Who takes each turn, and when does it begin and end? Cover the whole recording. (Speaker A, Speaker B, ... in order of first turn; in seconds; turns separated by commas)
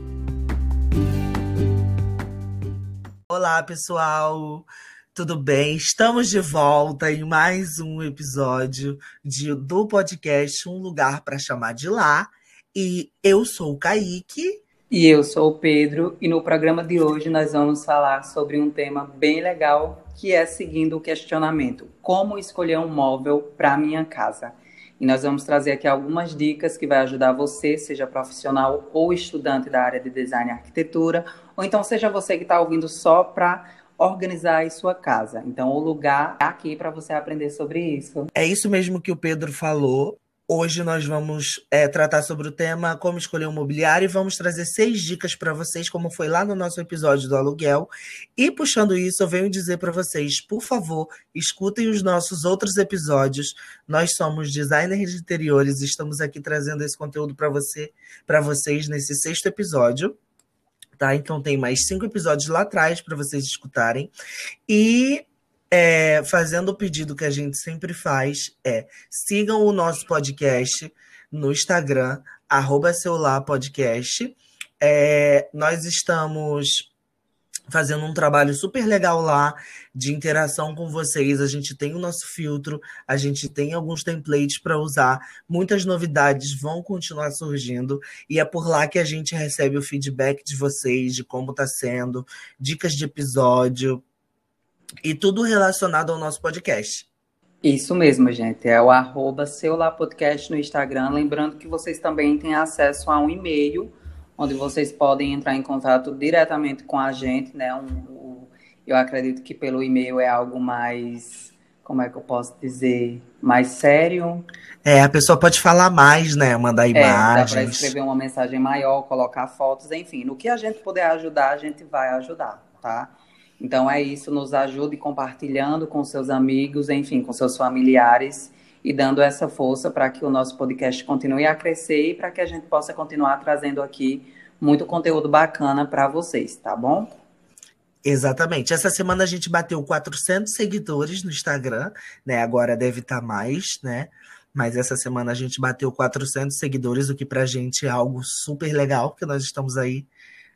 Speaker A: 3.3-14.6, Speaker B: 14.9-38.3, Speaker A: 38.3-60.1, Speaker A: 61.0-64.1, Speaker A: 64.7-76.9, Speaker A: 77.7-94.0, Speaker A: 95.0-97.1, Speaker B: 97.6-114.4, Speaker A: 114.8-117.9, Speaker B: 116.9-137.2, Speaker A: 138.0-150.1